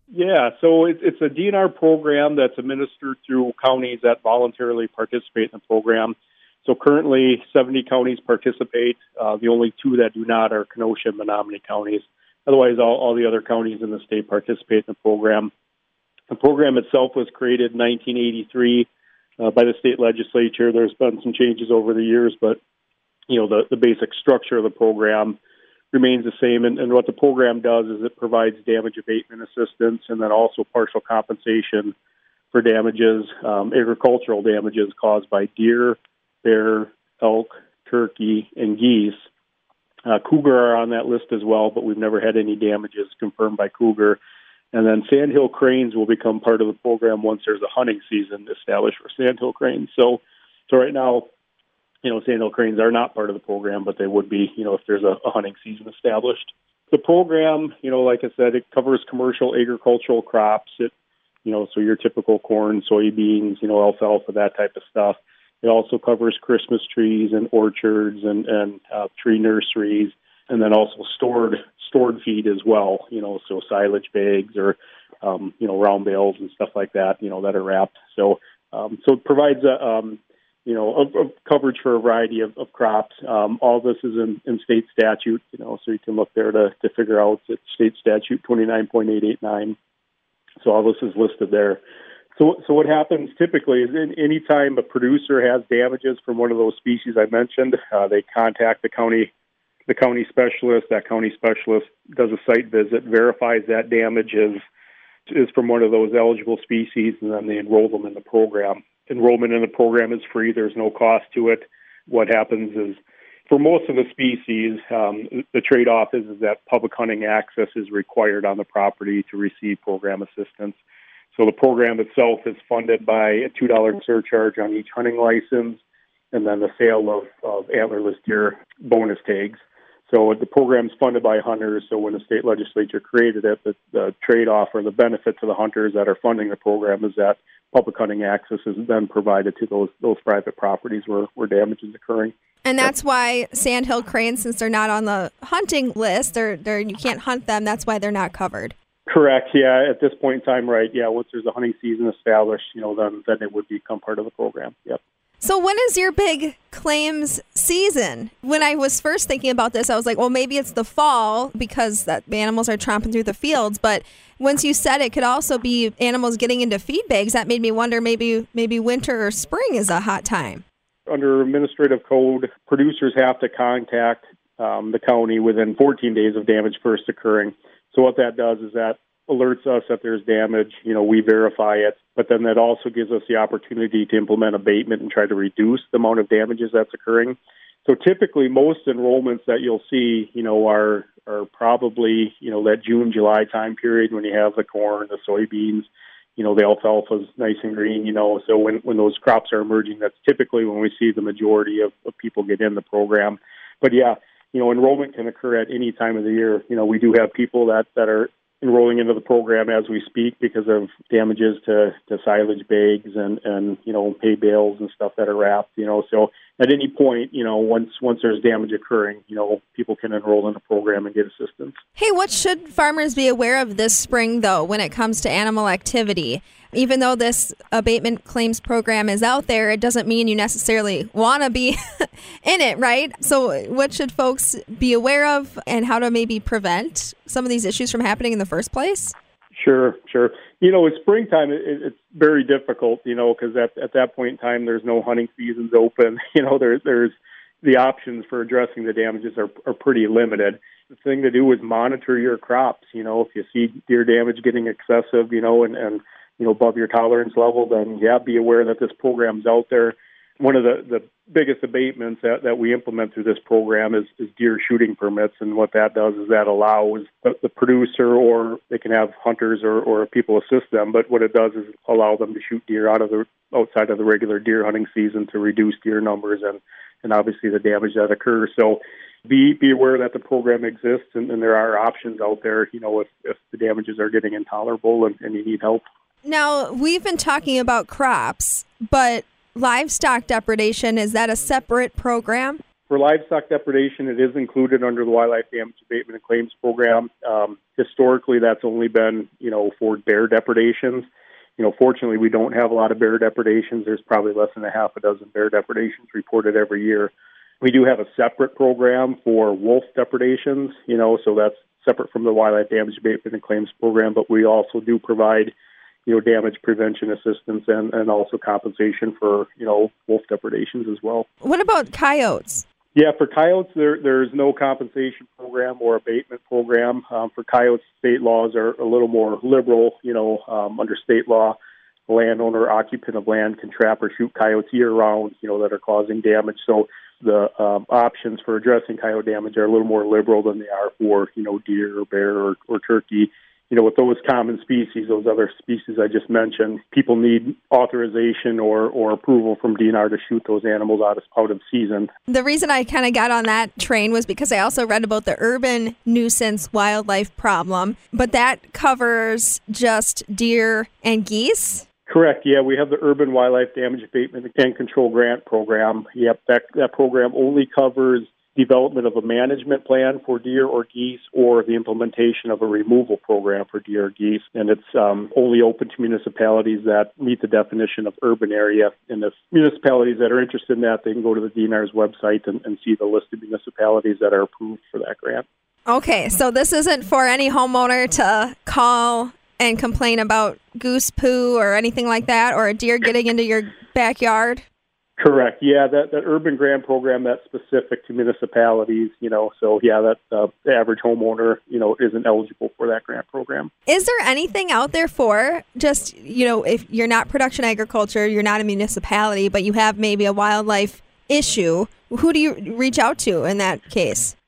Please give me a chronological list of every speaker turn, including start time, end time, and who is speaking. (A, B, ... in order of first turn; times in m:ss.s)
0:00.1-0:15.5 A
0:16.3-0:22.6 A
0:23.3-0:25.4 A
0:25.9-0:31.9 A
0:32.5-0:39.2 A
0:40.0-0:44.2 A
0:44.7-0:51.3 A
0:52.0-1:00.9 A
1:01.4-1:29.8 A
1:30.6-1:31.8 A
1:32.4-1:39.3 A
1:39.9-1:44.6 A
1:45.3-2:00.8 A
2:01.3-2:05.8 A
2:06.3-2:22.9 A
2:22.6-2:28.7 B
2:29.1-2:35.0 A
2:35.4-2:50.6 B
2:51.1-3:41.8 A
3:42.0-3:59.1 B
3:59.5-4:45.8 A
4:46.2-4:52.6 B
4:52.9-5:15.5 A
5:16.0-5:21.2 A
5:21.4-5:22.6 B
5:22.9-5:31.6 A
5:32.1-5:52.1 A
5:52.3-6:01.8 B
6:02.1-6:25.4 A
6:25.9-6:34.6 B
6:35.2-6:43.7 A
6:43.9-6:54.3 B